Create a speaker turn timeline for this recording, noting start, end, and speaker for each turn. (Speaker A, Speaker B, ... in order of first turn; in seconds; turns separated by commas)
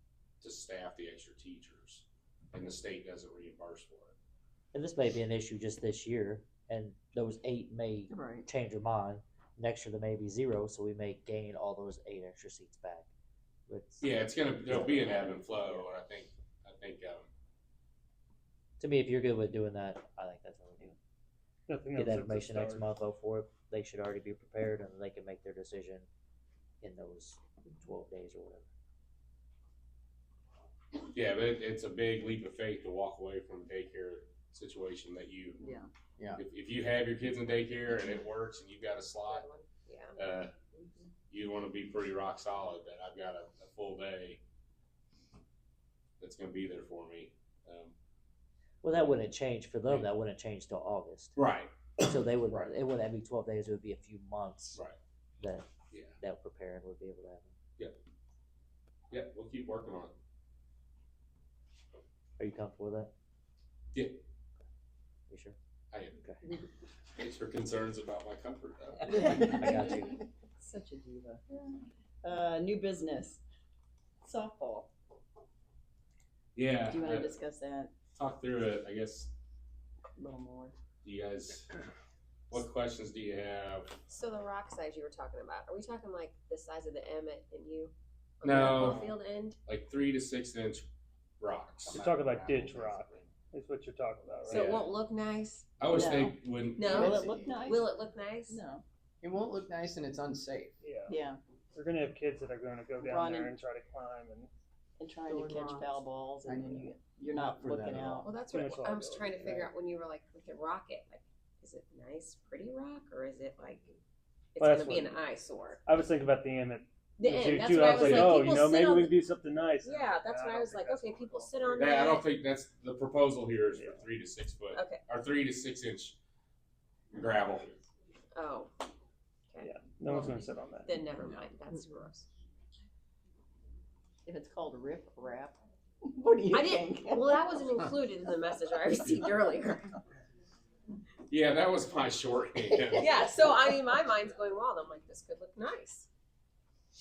Speaker A: 0.4-4.1, Speaker B: 4.7-13.1, Speaker C: 8.1-8.4, Speaker B: 13.7-15.9, Speaker A: 14.0-17.3, Speaker B: 18.8-20.9, Speaker D: 21.7-22.9, Speaker B: 21.9-26.1, Speaker B: 26.8-28.7, Speaker A: 31.0-35.7, Speaker C: 35.6-35.9, Speaker A: 36.4-39.5, Speaker E: 39.2-40.2, Speaker A: 40.2-40.5, Speaker A: 41.3-44.4, Speaker A: 46.2-47.9, Speaker B: 48.8-51.4, Speaker A: 51.4-52.7, Speaker B: 52.0-54.8, Speaker B: 55.4-57.5, Speaker A: 55.9-56.1, Speaker A: 59.1-60.1, Speaker B: 62.4-63.1, Speaker A: 63.9-64.2, Speaker B: 65.3-65.5, Speaker A: 65.9-66.2, Speaker A: 67.2-69.8, Speaker B: 69.1-70.2, Speaker C: 69.1-71.7, Speaker C: 72.2-73.4, Speaker C: 74.2-74.9, Speaker A: 76.5-77.4, Speaker C: 76.9-77.9, Speaker A: 78.1-79.3, Speaker C: 80.1-80.7, Speaker A: 81.0-81.7, Speaker A: 82.5-83.9, Speaker E: 84.1-89.6, Speaker A: 88.4-89.1, Speaker A: 89.7-90.8, Speaker A: 91.4-92.0, Speaker F: 91.9-92.8, Speaker D: 91.9-94.9, Speaker A: 92.6-93.2, Speaker E: 94.5-95.7, Speaker A: 95.8-97.1, Speaker C: 95.9-97.9, Speaker E: 96.8-98.6, Speaker F: 96.9-97.8, Speaker C: 98.5-98.8, Speaker F: 99.2-100.7, Speaker D: 100.8-101.2, Speaker C: 101.1-101.4, Speaker D: 101.7-104.5, Speaker C: 103.0-103.5, Speaker C: 105.0-108.3, Speaker F: 105.3-108.3, Speaker D: 107.7-109.7, Speaker E: 108.2-114.0, Speaker E: 114.5-115.8, Speaker D: 114.6-115.2, Speaker D: 115.8-121.9, Speaker E: 117.2-119.2, Speaker A: 118.0-118.3, Speaker E: 119.8-122.3, Speaker A: 121.8-126.2, Speaker D: 123.8-124.0, Speaker E: 124.7-125.0, Speaker A: 127.1-127.8, Speaker E: 128.3-128.8, Speaker E: 129.5-132.3, Speaker D: 129.6-131.1, Speaker C: 134.2-137.4, Speaker E: 136.5-140.0, Speaker A: 141.3-143.3, Speaker E: 143.0-146.1